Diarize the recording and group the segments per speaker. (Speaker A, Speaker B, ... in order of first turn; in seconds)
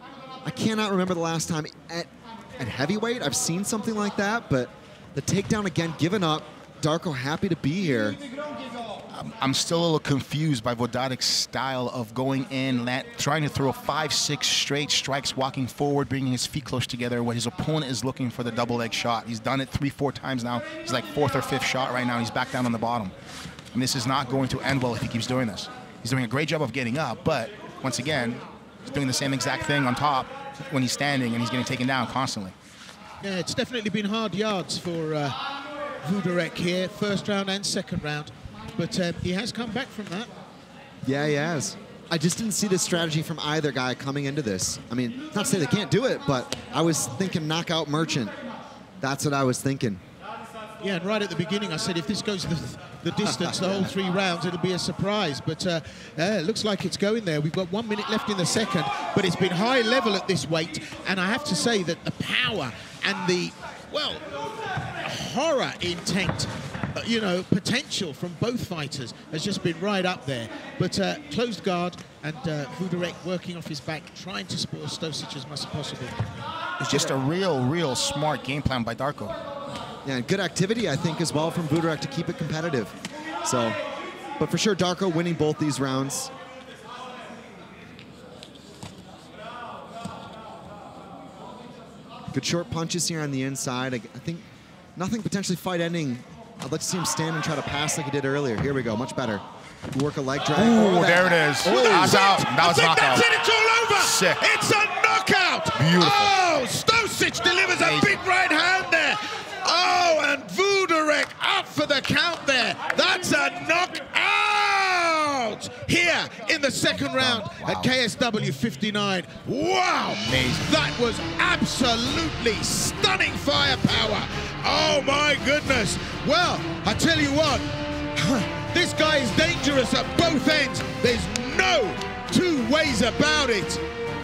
Speaker A: 0.5-8.2, 41.0-48.3, 49.0-50.0, 53.2-53.9, 80.0-83.8, 84.4-86.3, 92.3-94.4, 95.0-102.2
Speaker B: 9.1-23.1, 23.7-32.5, 76.8-79.4, 100.5-103.3, 104.0-104.4, 105.7-106.3, 107.7-108.2, 117.0-117.9, 120.1-120.7
Speaker C: 33.2-35.4, 36.0-40.3, 50.8-64.2, 65.0-76.2, 101.6-133.8